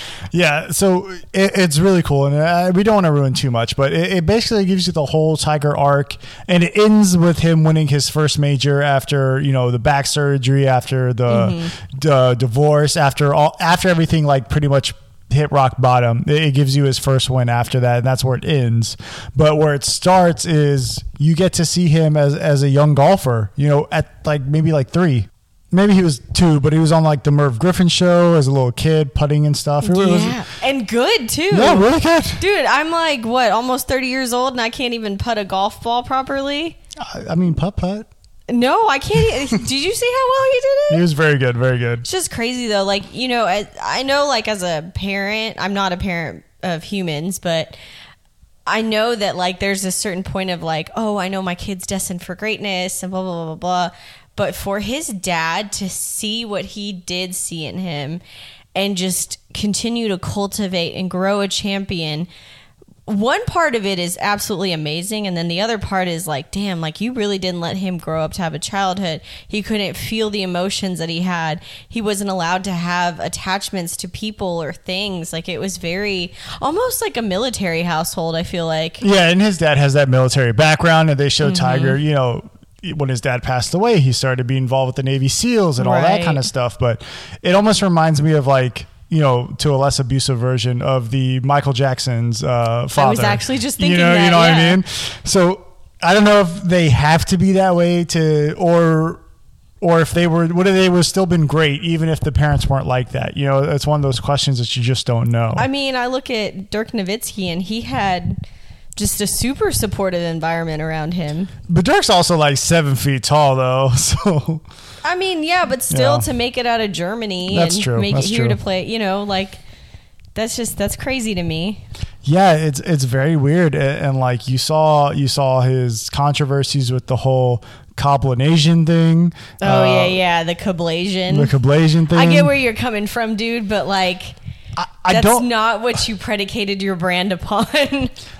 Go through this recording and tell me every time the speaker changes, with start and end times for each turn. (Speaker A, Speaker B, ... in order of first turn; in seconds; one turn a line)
Speaker A: 0.3-30.4
Speaker B: 11.3-11.7
Speaker B: 29.8-36.8
Speaker A: 31.5-32.4
Speaker A: 37.0-38.1
Speaker B: 38.5-41.0
Speaker A: 40.9-42.0
Speaker B: 42.0-47.8
Speaker B: 48.7-58.2
Speaker B: 58.8-62.3
Speaker B: 63.1-79.0
Speaker A: 79.0-99.2
Speaker B: 81.4-82.0
Speaker B: 85.8-86.5
Speaker B: 93.0-94.8
Speaker A: 99.8-105.7
Speaker B: 105.5-108.4
Speaker B: 109.0-111.5
Speaker A: 111.7-114.6
Speaker B: 115.0-119.6
Speaker A: 115.9-116.3
Speaker A: 117.5-118.6
Speaker B: 120.3-121.8
Speaker A: 122.2-130.2
Speaker B: 129.6-131.5
Speaker A: 131.3-132.5
Speaker B: 132.1-134.4
Speaker A: 134.8-135.5
Speaker B: 135.1-138.1